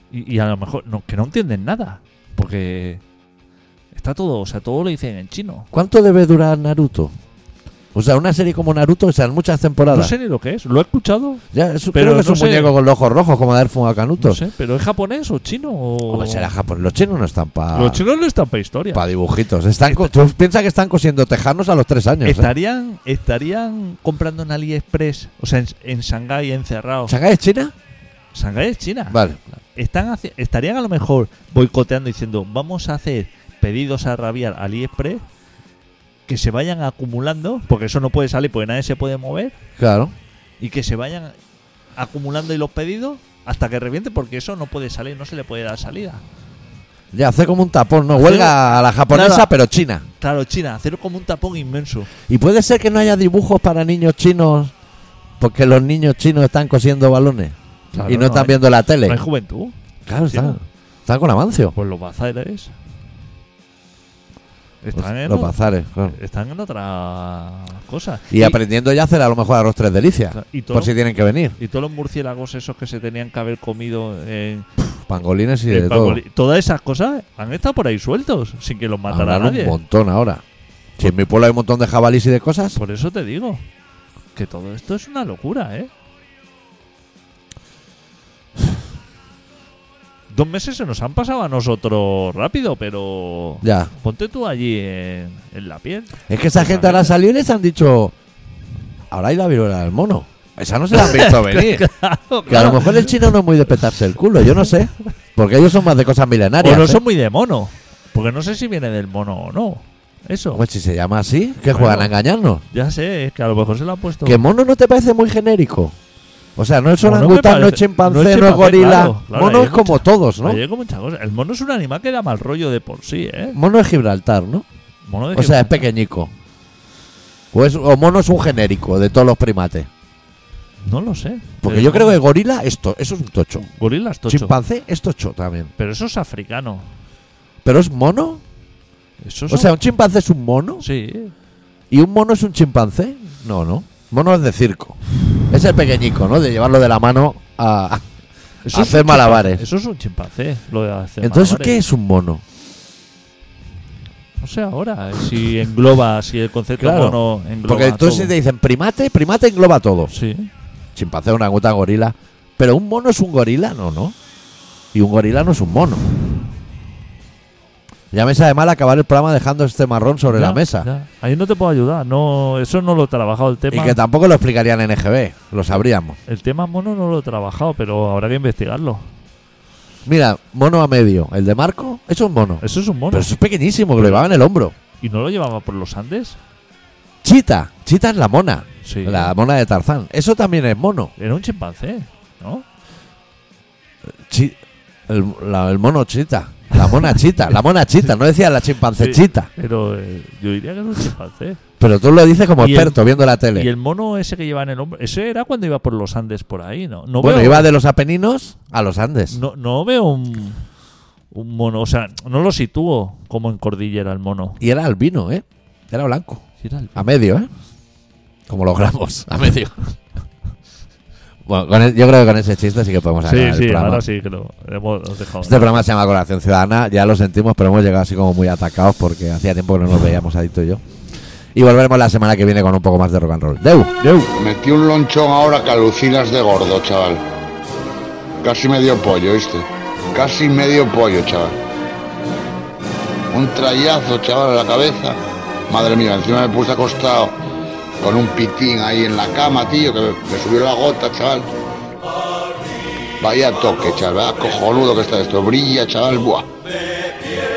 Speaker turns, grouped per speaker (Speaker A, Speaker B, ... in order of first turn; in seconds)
Speaker A: 0.1-3.0, 3.9-5.7, 9.8-11.4, 11.9-12.7, 14.2-16.5, 17.7-19.1, 22.2-27.2, 28.3-35.2, 36.3-39.5, 40.6-41.4, 42.0-46.2, 48.1-49.5, 50.2-52.1, 57.9-59.8, 60.3-60.6, 61.8-62.7, 64.8-68.6, 70.3-71.0, 71.6-74.7, 75.7-79.8, 82.8-83.6, 84.3-85.9, 90.3-97.1, 100.9-103.3, 106.6-110.6, 111.7-112.1, 112.7-114.4, 117.0-123.6, 125.1-125.8, 130.8-132.2, 133.6-134.6, 135.8-136.9, 139.2-139.8, 140.8-141.3, 148.7-151.8, 154.4-158.3, 160.1-160.5, 170.3-174.0, 176.3-179.1, 182.6-183.3, 184.0-184.3, 185.0-186.4, 188.8-189.3, 191.2-192.7, 198.9-201.6, 202.6-203.0, 203.5-207.7, 209.3-210.6, 211.3-214.6, 216.6-217.1, 223.2-225.8, 234.0-234.3
Speaker B: 5.7-7.1, 7.9-10.1, 11.5-14.4, 16.1-18.0, 18.9-22.5, 27.1-27.7, 29.1-29.4, 39.8-40.1, 47.1-50.0, 52.3-54.7, 55.4-59.2, 60.1-61.8, 65.0-66.2, 68.3-71.6, 75.1-76.2, 79.1-80.4, 81.0-82.8, 93.6-93.9, 96.3-98.1, 99.1-101.8, 102.5-107.0, 110.5-112.6, 114.2-116.0, 116.6-120.6, 123.5-124.7, 125.3-126.3, 127.5-129.9, 131.6-133.7, 134.3-135.7, 137.6-138.4, 139.5-140.9, 141.9-145.0, 145.5-148.0, 148.7-149.7, 151.2-152.4, 156.8-160.1, 160.9-164.2, 164.9-166.0, 168.1-170.9, 173.7-176.2, 180.1-184.7, 187.2-191.1, 194.3-194.6, 195.1-199.5, 201.8-203.7, 207.2-209.4, 214.6-216.4, 216.9-217.5, 218.5-219.9, 221.5-224.0, 225.4-230.8, 231.6-233.9
Speaker C: 234.4-237.2, 238.4-241.6, 243.3-245.2, 245.7-247.4, 248.0-251.5, 253.2-256.5